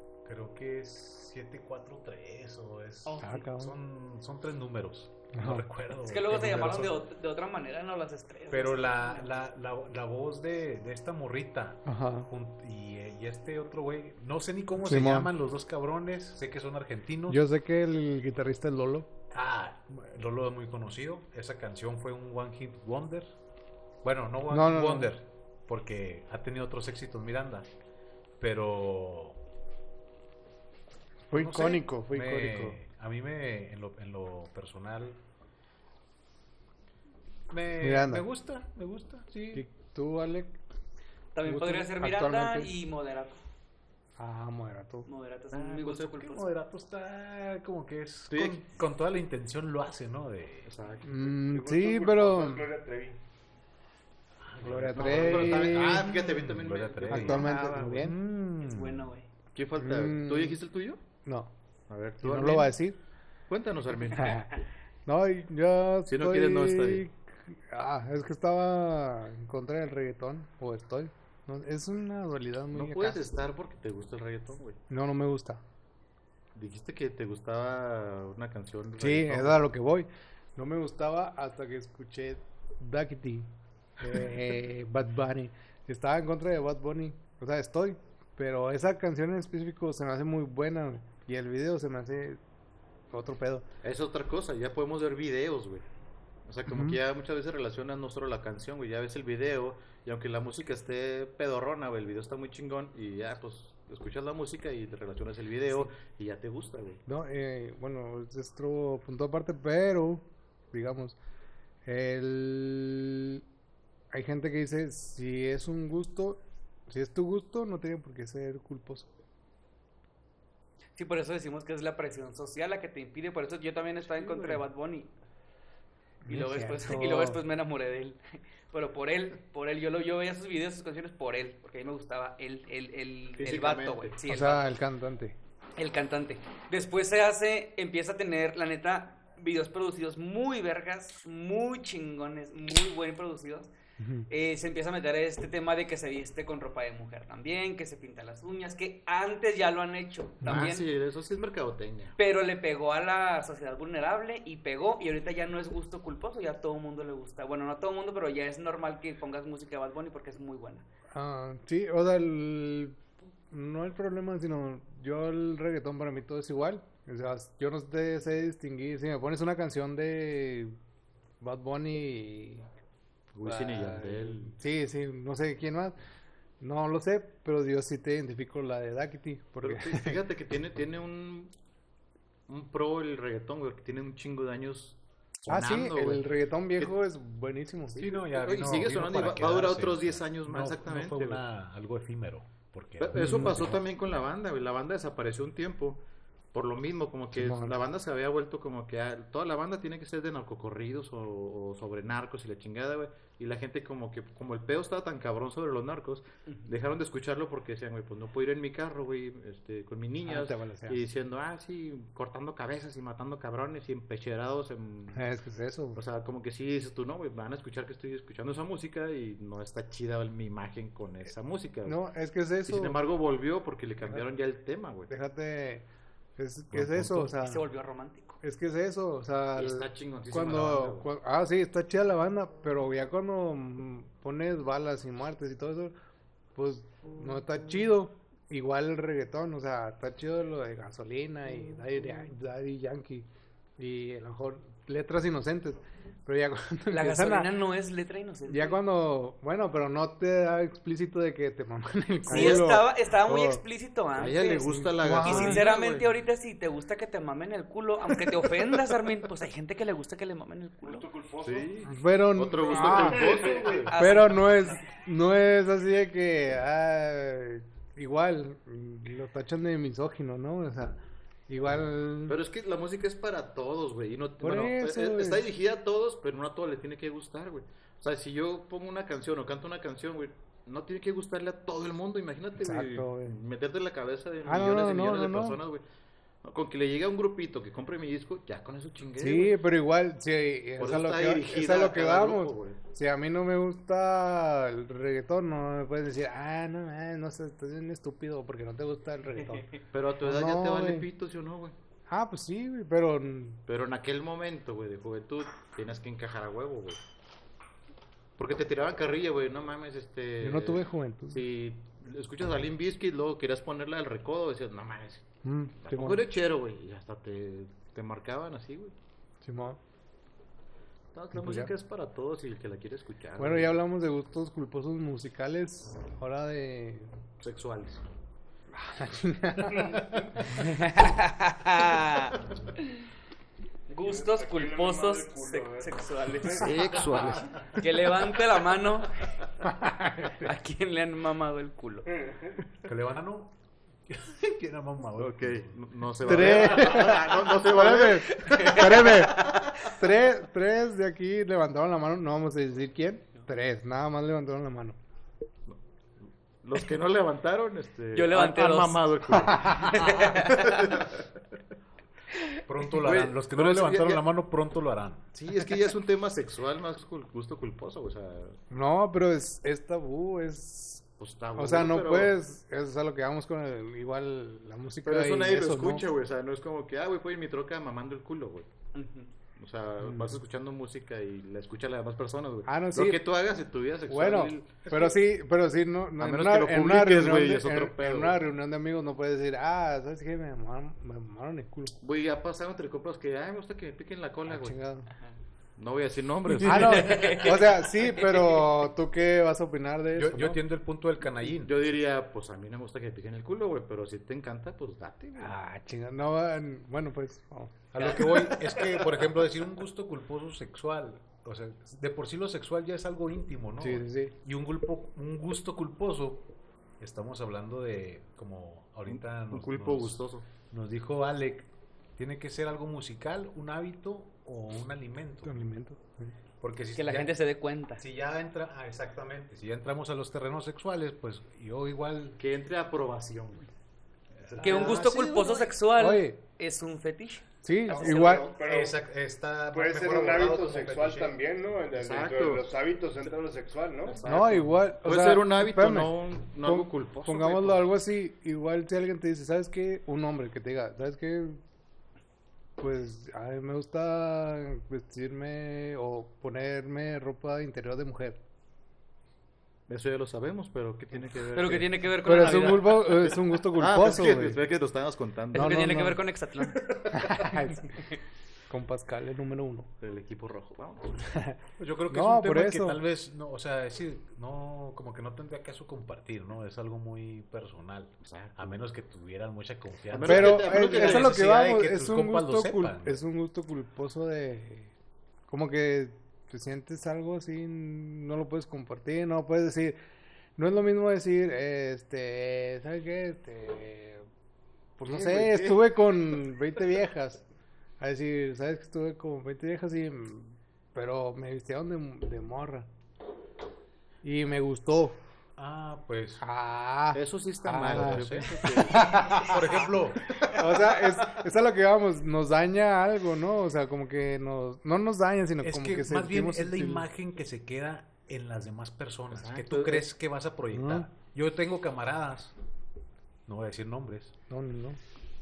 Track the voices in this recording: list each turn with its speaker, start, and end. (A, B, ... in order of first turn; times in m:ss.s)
0:00.2-0:07.0 A
0:03.0-0:03.5 B
0:03.2-0:03.7 C
0:05.3-0:05.7 C
0:06.0-0:09.3 B
0:08.5-0:17.4 A
0:11.8-0:12.3 C
0:14.8-0:15.3 C
0:17.3-0:19.1 C
0:19.3-0:23.3 A
0:24.0-0:27.7 A
0:24.5-0:25.1 C
0:28.4-0:29.4 A
0:31.3-0:32.8 C
0:31.3-0:35.2 A
0:37.5-0:39.6 A
0:37.8-0:38.2 C
0:39.5-0:40.6 C
0:41.3-0:43.4 B
0:41.4-0:42.7 C
0:44.2-0:45.1 C
0:45.1-0:46.5 B
0:45.5-0:46.0 D
0:45.9-0:50.7 A
0:48.3-0:48.6 D
0:50.6-0:51.1 D
0:51.0-0:52.6 C
0:51.3-0:53.2 E
0:54.4-0:59.1 A
0:54.6-0:56.1 C
0:54.9-0:58.1 D
0:57.1-0:58.2 C
0:58.6-0:59.3 B
0:59.5-1:01.0 D
0:59.8-1:00.6 C
1:01.2-1:01.5 C
1:01.9-1:02.7 D
1:02.2-1:03.0 C
1:03.5-1:04.7 D
1:04.1-1:04.5 C
1:05.0-1:13.2 C
1:06.1-1:07.0 D
1:12.7-1:14.8 D
1:14.9-1:15.6 C
1:16.5-1:19.6 D
1:19.0-1:32.4 C
1:33.1-1:33.6 C
1:33.8-1:35.8 D
1:36.4-1:47.0 D
1:36.7-1:37.0 C
1:47.1-1:51.2 C
1:51.8-1:53.4 C
1:54.1-1:59.1 C
2:00.9-2:05.1 B
2:06.2-2:07.4 C
2:06.3-2:08.2 B
2:08.7-2:14.7 B
2:13.4-2:14.1 D
2:14.3-2:15.3 C
2:15.8-2:23.7 B
2:24.0-2:24.3 C
2:24.3-2:30.9 B
2:30.4-2:30.7 C
2:30.4-2:32.2 D
2:32.2-2:40.8 B
2:41.1-2:50.8 C
2:51.4-2:52.7 C
2:53.3-2:54.6 D
2:53.4-2:56.0 C
2:56.6-3:00.2 C
2:59.6-3:01.5 D
3:02.5-3:06.9 D
3:05.5-3:08.0 C
3:07.9-3:11.4 D
3:08.0-3:13.8 A
3:13.0-3:16.0 D
3:13.1-3:13.6 C
3:16.5-3:35.2 D
3:17.3-3:17.8 C
3:30.2-3:31.0 C
3:35.1-3:36.0 C
3:35.9-3:42.0 D
3:41.8-3:43.0 C
3:42.7-3:45.1 D
3:45.1-3:45.8 C
3:46.4-3:47.6 C
3:46.8-3:47.2 A
3:47.3-3:48.4 B
3:48.4-3:55.9 C
3:49.6-3:51.1 D
3:56.5-4:03.3 C
4:03.8-4:07.5 C
4:06.9-4:08.8 B
4:08.5-4:13.6 C
4:12.3-4:21.0 B
4:12.3-4:12.6 D
4:14.2-4:16.1 D
4:14.6-4:15.6 C
4:20.8-4:21.7 E
4:21.4-4:23.9 D
4:21.8-4:23.3 C
4:22.7-4:23.9 E
4:23.3-4:24.8 B
4:24.0-4:31.0 C
4:31.5-4:32.4 C
4:32.3-4:45.8 D
4:34.4-4:35.4 C
4:42.6-4:43.4 C
4:44.4-4:45.6 C
4:46.4-4:49.6 D
4:49.2-4:59.7 C
4:50.8-4:52.8 D
4:59.4-4:59.8 B
4:59.9-5:01.8 D
5:00.2-5:01.1 C
5:02.1-5:03.6 C
5:03.6-5:07.0 D
5:08.4-5:15.3 D
5:10.4-5:11.4 C
5:15.4-5:16.2 C
5:15.8-5:18.9 D
5:19.4-5:19.8 C
5:21.1-5:23.8 D
5:21.3-5:21.7 C
5:23.4-5:27.1 C
5:27.4-5:28.0 D
5:28.7-5:30.5 C
5:29.7-5:30.3 E
5:30.5-5:33.0 B
5:33.9-5:39.2 B
5:34.0-5:36.9 E
5:36.6-5:37.8 D
5:39.6-5:40.5 C
5:40.3-5:42.1 B
5:42.2-5:42.5 E
5:42.8-5:46.6 A
5:45.2-5:49.8 D
5:46.2-5:55.0 C
5:48.4-5:49.8 B
5:56.6-6:01.4 D
5:58.1-6:01.0 B
6:02.6-6:05.3 A
6:02.9-6:04.2 D
6:05.3-6:08.6 D
6:08.7-6:16.0 C
6:11.2-6:12.3 D
6:15.0-6:18.7 D
6:18.9-6:19.3 B
6:19.6-6:25.1 D
6:20.0-6:20.4 C
6:22.6-6:23.2 C
6:24.1-6:32.0 C
6:26.2-6:28.4 D
6:32.0-6:34.8 D
6:34.5-6:35.1 C
6:35.8-6:37.6 D
6:36.6-6:40.6 C
6:36.8-6:38.6 B
6:40.2-6:41.7 A
6:41.4-6:45.5 D
6:45.4-6:48.5 C
6:47.9-6:56.5 A
6:53.8-6:54.3 C
6:57.0-7:05.7 A
6:59.1-7:00.4 D
7:05.4-7:06.3 C
7:06.6-7:07.4 A
7:07.0-7:08.0 B
7:08.0-7:12.4 A
7:12.4-7:13.7 D
7:14.4-7:15.6 A
7:14.4-7:15.2 D
7:14.6-7:17.4 B
7:16.0-7:16.4 C
7:17.6-7:18.5 C
7:17.9-7:18.5 D
7:17.9-7:19.0 E
7:18.6-7:21.4 A
7:19.7-7:24.2 E
7:22.0-7:22.6 D
7:24.0-7:27.8 D
7:24.2-7:31.6 C
7:32.8-7:38.4 C
7:39.9-7:41.9 D
7:41.5-7:43.2 B
7:42.2-7:44.6 C
7:43.2-7:45.9 D
7:45.5-7:46.2 C
7:45.5-7:46.9 B
7:47.1-7:48.0 C
7:48.7-7:49.9 C
7:50.0-7:51.2 D
7:51.3-7:51.6 C
7:51.8-8:03.2 A
7:52.1-7:53.0 C
7:58.2-7:58.8 D
8:00.1-8:01.5 D
8:00.2-8:04.9 C
8:05.5-8:10.0 C
8:10.6-8:14.2 C
8:15.0-8:17.4 C
8:15.1-8:16.4 D
8:18.0-8:22.9 C
8:24.2-8:25.2 C
8:25.6-8:26.4 A
8:26.4-8:29.6 C
8:27.1-8:29.2 D
8:27.8-8:30.4 A
8:30.4-8:37.0 C
8:35.6-8:42.5 A
8:39.3-8:40.0 D
8:40.7-8:41.1 C
8:43.5-8:44.3 A
8:44.5-8:45.0 C